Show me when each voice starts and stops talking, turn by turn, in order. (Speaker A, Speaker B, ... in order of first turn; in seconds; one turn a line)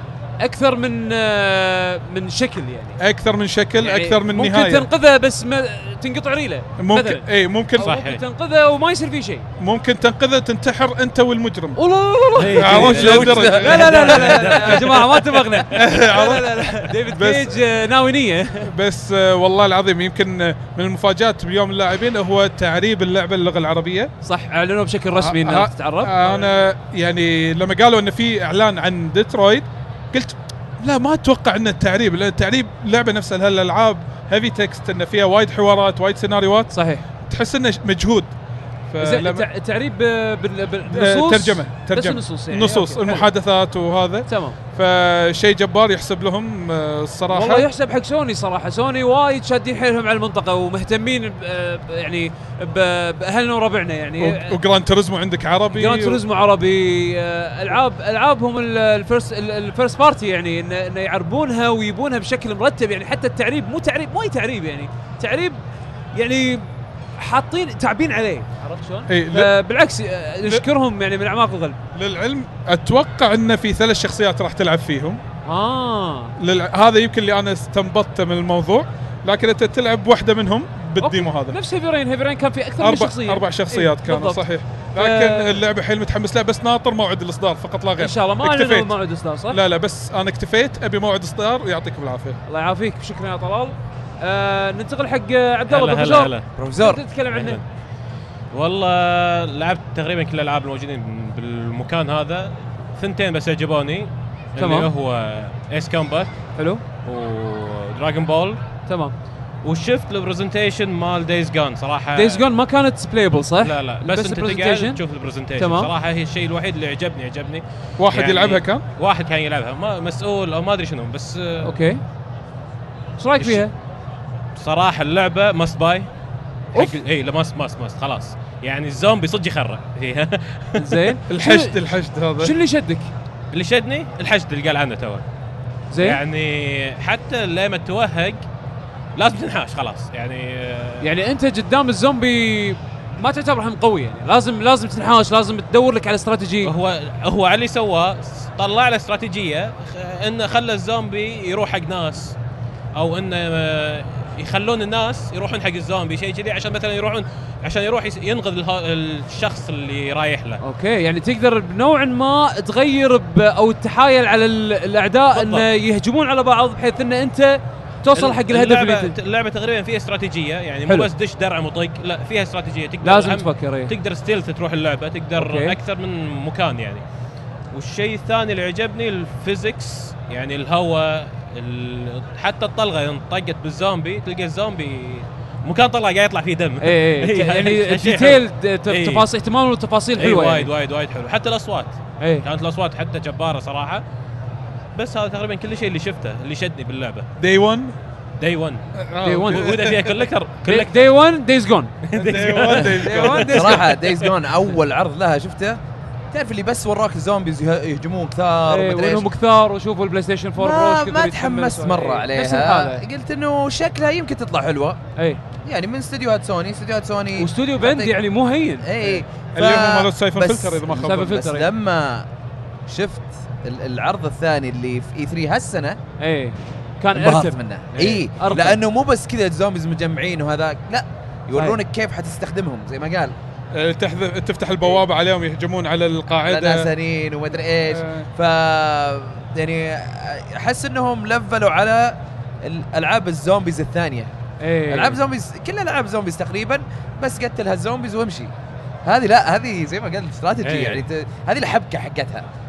Speaker A: 0.4-3.0
Speaker B: 3.0-4.9
Speaker A: 3.8-7.2
Speaker B: 6.8-7.9
Speaker A: 7.8-9.4
Speaker C: 7.8-8.2
Speaker B: 9.6-11.8
Speaker A: 11.8-18.7
Speaker C: 12.4-13.4
Speaker B: 12.5-14.4
Speaker D: 12.7-14.8
Speaker C: 14.2-15.2
Speaker B: 15.7-17.6
Speaker B: 18.7-24.1
Speaker A: 24.2-26.4
Speaker B: 25.1-38.3
Speaker A: 36.7-37.0
Speaker B: 38.9-39.4
Speaker A: 39.0-43.2
Speaker B: 40.9-47.6
Speaker A: 44.3-44.6
Speaker A: 47.3-54.5
Speaker B: 54.2-56.2
Speaker A: 55.7-65.6
Speaker A: 66.1-66.6
Speaker A: 67.2-71.8
Speaker B: 69.1-69.5
Speaker B: 71.9-75.2
Speaker A: 75.5-76.3
Speaker B: 76.4-81.5
Speaker A: 81.0-84.4
Speaker B: 82.8-89.0
Speaker A: 84.9-85.6
Speaker A: 88.0-89.6
Speaker B: 89.5-92.4
Speaker A: 92.5-97.6
Speaker C: 95.7-96.5
Speaker D: 96.6-97.0
Speaker C: 97.3-97.6
Speaker C: 98.5-106.3
Speaker A: 104.6-104.9
Speaker A: 106.6-106.8
Speaker C: 107.1-108.6
Speaker A: 108.9-109.1
Speaker C: 109.6-112.4
Speaker A: 112.2-115.0
Speaker C: 113.6-121.8
Speaker A: 115.5-115.9
Speaker B: 118.0-118.8
Speaker A: 121.6-122.0
Speaker A: 123.2-123.7
Speaker C: 123.4-123.6
Speaker C: 124.6-126.1
Speaker C: 126.7-130.8
Speaker A: 130.8-131.8
Speaker B: 131.3-132.5
Speaker A: 132.4-133.1
Speaker C: 133.5-135.2
Speaker A: 135.9-136.2
Speaker C: 136.0-138.4
Speaker C: 139.2-141.1
Speaker A: 141.0-146.7
Speaker C: 146.6-152.3
Speaker C: 153.0-160.6
Speaker A: 160.6-169.1
Speaker C: 165.3-165.7
Speaker C: 168.2-177.0
Speaker A: 173.0-173.9
Speaker A: 175.3-175.8
Speaker C: 177.7-189.2
Speaker A: 186.8-190.7
Speaker C: 190.2-194.0
Speaker C: 195.0-197.2
Speaker B: 197.4-197.9
Speaker C: 198.4-198.8
Speaker B: 199.0-200.2
Speaker A: 199.2-199.7
Speaker C: 199.5-201.0
Speaker A: 200.7-201.9
Speaker C: 202.1-203.4
Speaker B: 202.2-203.9
Speaker A: 202.7-203.9
Speaker D: 203.5-205.8
Speaker D: 206.3-209.3
Speaker A: 208.7-213.0
Speaker D: 210.6-215.0
Speaker D: 215.6-218.2
Speaker A: 217.4-219.1
Speaker D: 218.8-222.3
Speaker B: 219.5-221.3
Speaker A: 220.9-221.7
Speaker D: 222.9-226.0
Speaker A: 226.2-228.8
Speaker D: 227.1-233.3
Speaker B: 233.8-236.9
Speaker D: 236.4-244.3
Speaker B: 237.9-238.3
Speaker A: 244.6-245.2
Speaker D: 244.9-248.5
Speaker D: 249.0-252.4
Speaker C: 250.6-251.0